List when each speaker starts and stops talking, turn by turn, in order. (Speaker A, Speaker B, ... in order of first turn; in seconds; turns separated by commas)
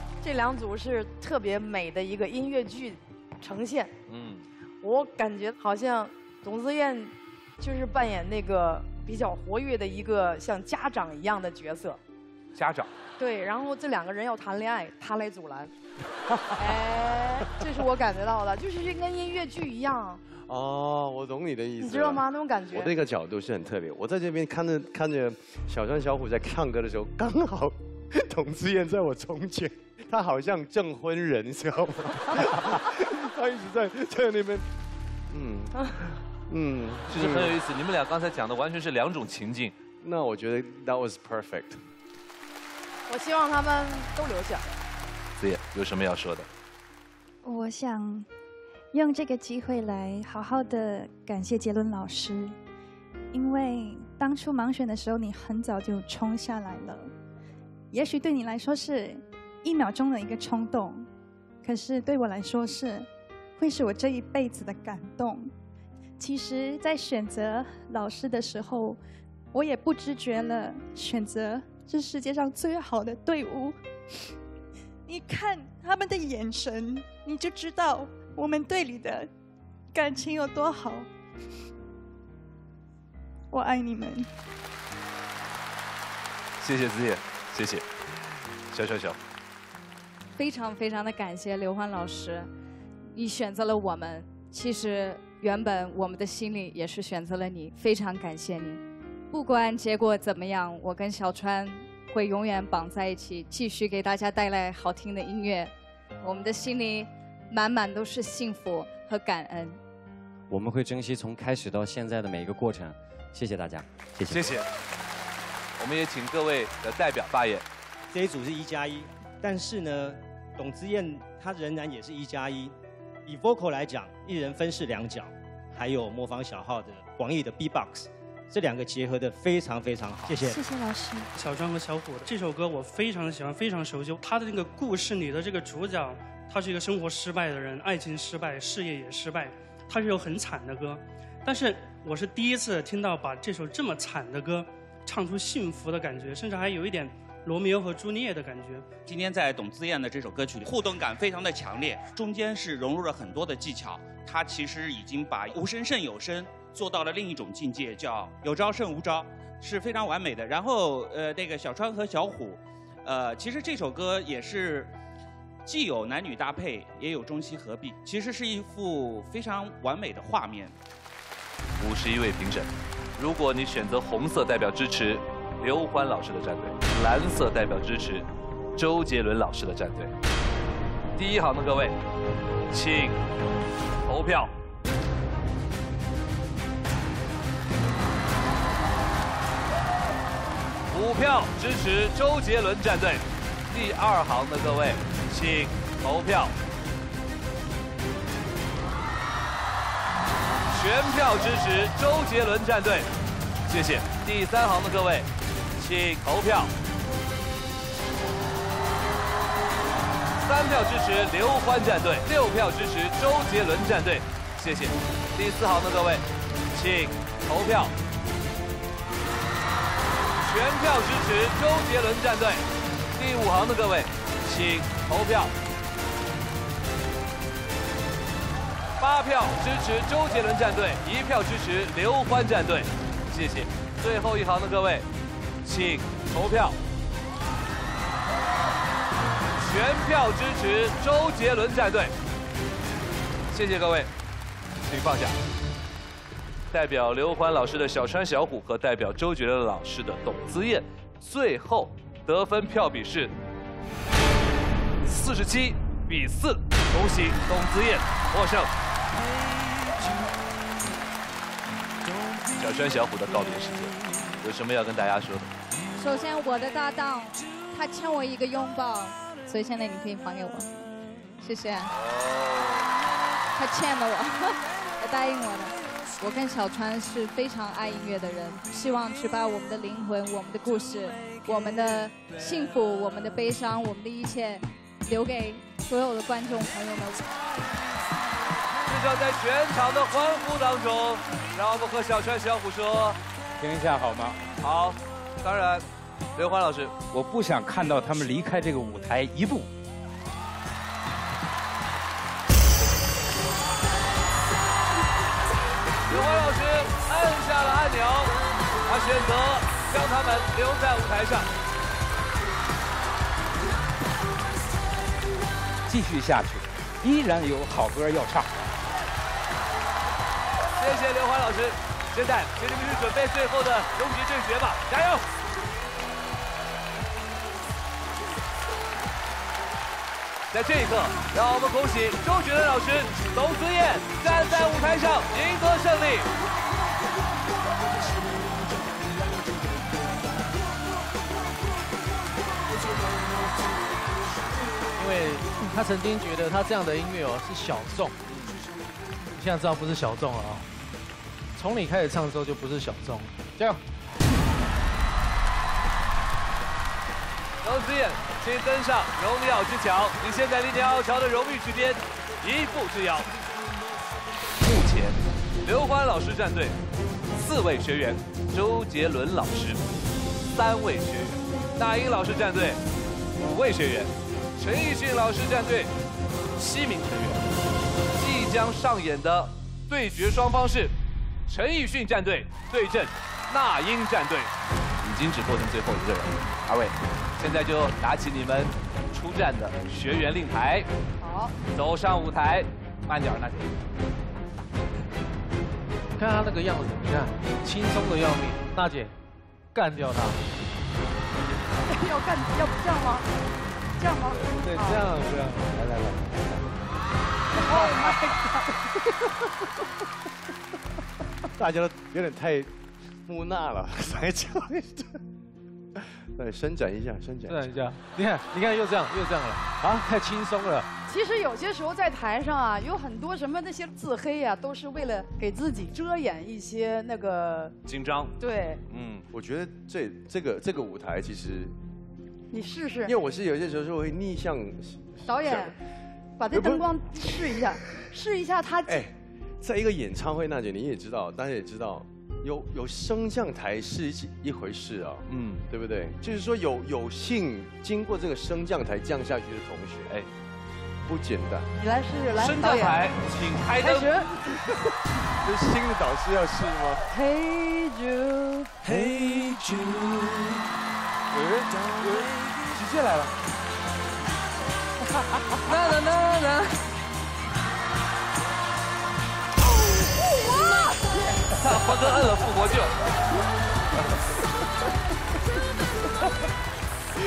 Speaker A: 0.2-3.9, Speaker B: 4.1-4.5, Speaker A: 4.8-12.0, Speaker B: 12.6-12.9, Speaker A: 13.2-15.7, Speaker A: 16.6-20.2, Speaker C: 20.4-34.7, Speaker A: 21.8-22.9, Speaker C: 35.3-37.5, Speaker B: 37.1-39.8, Speaker C: 40.0-41.8, Speaker A: 43.1-44.7, Speaker B: 45.4-46.5, Speaker D: 47.4-48.3, Speaker D: 48.9-52.6, Speaker D: 53.3-57.1, Speaker D: 57.9-61.1, Speaker D: 61.6-65.5, Speaker D: 66.2-69.0, Speaker D: 69.5-73.8, Speaker D: 75.1-79.3, Speaker D: 79.9-81.1, Speaker D: 83.5-84.3, Speaker B: 86.6-87.9, Speaker B: 88.7-89.2, Speaker E: 90.4-92.5, Speaker E: 93.1-105.7, Speaker E: 106.2-109.8, Speaker F: 110.5-114.6, Speaker B: 114.3-114.7, Speaker B: 115.8-117.7, Speaker G: 118.1-122.8, Speaker G: 123.3-130.6, Speaker D: 130.5-131.3, Speaker H: 131.4-149.0, Speaker I: 149.1-164.9, Speaker I: 165.7-170.7, Speaker B: 171.8-180.1, Speaker B: 181.2-182.0, Speaker B: 182.7-183.2, Speaker B: 184.1-184.5, Speaker B: 190.9-196.5, Speaker B: 200.7-203.1, Speaker B: 203.7-206.7, Speaker B: 210.4-217.9, Speaker B: 220.4-222.7, Speaker B: 223.2-225.5, Speaker B: 229.0-235.1, Speaker B: 235.6-236.8, Speaker B: 239.6-242.1, Speaker B: 243.5-244.1, Speaker B: 244.8-245.4, Speaker B: 246.7-253.3, Speaker B: 255.0-258.7, Speaker B: 262.5-265.5, Speaker E: 266.0-270.9, Speaker E: 271.4-271.9, Speaker B: 272.0-272.9, Speaker E: 273.6-287.3, Speaker B: 288.9-293.2, Speaker J: 293.6-294.4, Speaker B: 294.6-295.8, Speaker B: 296.4-296.9, Speaker J: 297.1-299.7, Speaker B: 306.1-308.3, Speaker B: 308.9-311.5, Speaker J: 315.9-318.6, Speaker B: 320.8-325.3, Speaker B: 330.5-336.3, Speaker K: 345.0-348.2, Speaker B: 348.3-348.6, Speaker K: 349.3-350.7, Speaker K: 351.6-353.8, Speaker B: 357.6-363.3, Speaker B: 364.6-366.8, Speaker B: 367.4-369.9, Speaker B: 370.5-372.8, Speaker B: 373.4-375.9, Speaker B: 376.6-377.5, Speaker B: 378.1-380.9, Speaker B: 381.5-384.5, Speaker B: 385.0-390.9, Speaker A: 391.2-391.5, Speaker B: 391.7-393.8, Speaker K: 396.1-399.1, Speaker K: 399.7-400.4, Speaker A: 401.9-403.2, Speaker A: 404.0-405.1, Speaker K: 404.5-405.8, Speaker A: 407.6-408.4, Speaker C: 411.6-412.7, Speaker C: 413.2-415.2, Speaker C: 416.4-417.7, Speaker K: 417.5-420.9, Speaker A: 421.1-427.8, Speaker B: 427.9-428.4, Speaker A: 428.4-428.8, Speaker B: 428.9-429.3, Speaker C: 429.3-431.8, Speaker A: 432.5-433.1, Speaker C: 433.0-435.7, Speaker A: 435.3-435.8, Speaker A: 436.4-439.0, Speaker C: 436.5-436.9, Speaker C: 438.9-450.1, Speaker B: 445.3-445.6, Speaker C: 451.1-451.7, Speaker A: 451.8-453.2, Speaker B: 452.4-454.2, Speaker A: 453.8-454.3, Speaker C: 455.4-457.1, Speaker A: 457.1-458.9, Speaker B: 462.8-463.2, Speaker B: 471.6-472.9